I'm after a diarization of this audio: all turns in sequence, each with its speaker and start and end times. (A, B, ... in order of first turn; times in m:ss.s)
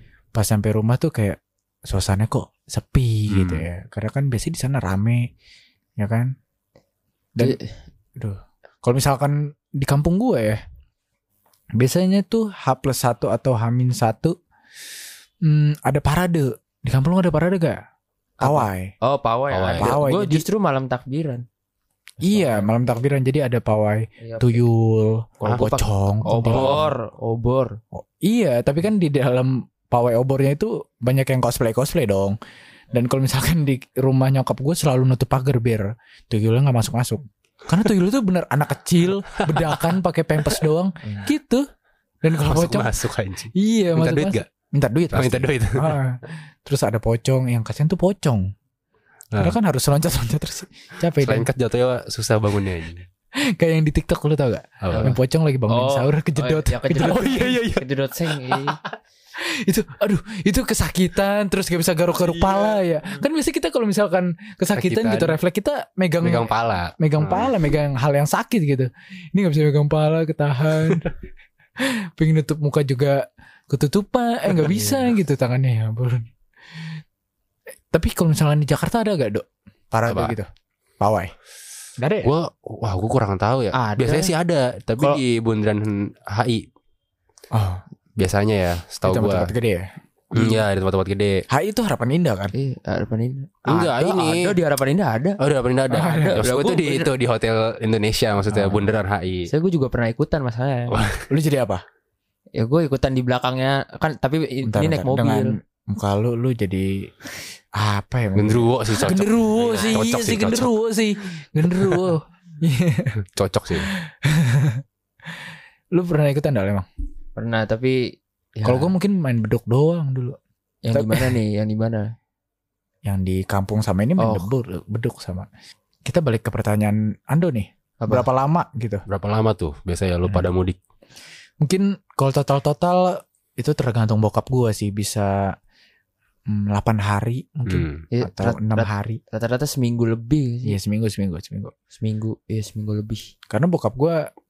0:00.3-0:05.3 A
0:03.3-0:03.6 B
0:06.0-0:06.3 A
0:07.4-0:07.7 C
0:08.2-0:10.6 A
0:11.8-0:14.4 A
0:15.4-0:17.8 A
0:18.4-0:21.4 C
0:18.4-0:18.9 A
0:19.5-0:19.9 B
0:19.8-0:20.4 A
0:22.2-0:22.7 C
0:22.2-0:26.9 A
0:24.2-0:24.6 C
0:25.4-0:27.8 C
0:25.4-0:25.7 B
0:26.4-0:26.9 B
0:27.9-0:32.4 A
0:32.9-0:41.6 A
0:39.4-0:39.8 B
0:42.2-0:42.9 A
0:42.4-0:44.4 B
0:43.6-0:48.5 A
0:45.1-0:46.0 B
0:49.4-0:51.5 A
0:51.2-0:53.0 B
0:53.5-0:57.6 A
0:54.8-0:55.1 B
0:54.9-0:58.8 C
0:57.0-0:57.8 B
0:58.5-0:58.9 B
0:59.4-1:11.1 A
1:04.8-1:05.4 B
1:06.2-1:07.6 B
1:11.8-1:16.3 A
1:14.7-1:15.1 C
1:17.9-1:20.5 A
1:20.1-1:20.4 B
1:21.0-1:21.3 A
1:22.0-1:22.3 A
1:22.2-1:26.7 B
1:23.7-1:24.3 C
1:27.5-1:27.8 A
1:28.2-1:29.5 B
1:29.0-1:29.9 A
1:30.3-1:31.4 B
1:31.5-1:32.5 A
1:32.5-1:35.4 C
1:33.7-1:34.6 B
1:35.4-1:39.5 B
1:35.9-1:37.1 C
1:35.9-1:36.4 A
1:38.5-1:38.9 A
1:39.5-1:41.0 C
1:40.9-1:41.2 B
1:41.3-1:41.8 A
1:42.6-1:45.6 C
1:44.6-1:47.1 A
1:47.7-1:53.2 A
1:48.3-1:50.7 B
1:49.6-1:50.0 C
1:53.4-1:53.9 B
1:53.7-1:56.9 A
1:57.4-1:58.9 C
1:58.6-2:00.4 A
2:00.8-2:02.1 C
2:00.9-2:01.4 A
2:03.0-2:05.5 A
2:04.2-2:04.5 C
2:06.0-2:09.0 A
2:08.0-2:08.3 C
2:09.1-2:10.8 B
2:11.6-2:15.5 A
2:16.5-2:19.2 A
2:17.7-2:18.0 B
2:18.1-2:20.8 C
2:20.6-2:21.7 A
2:22.0-2:23.2 C
2:23.5-2:24.2 A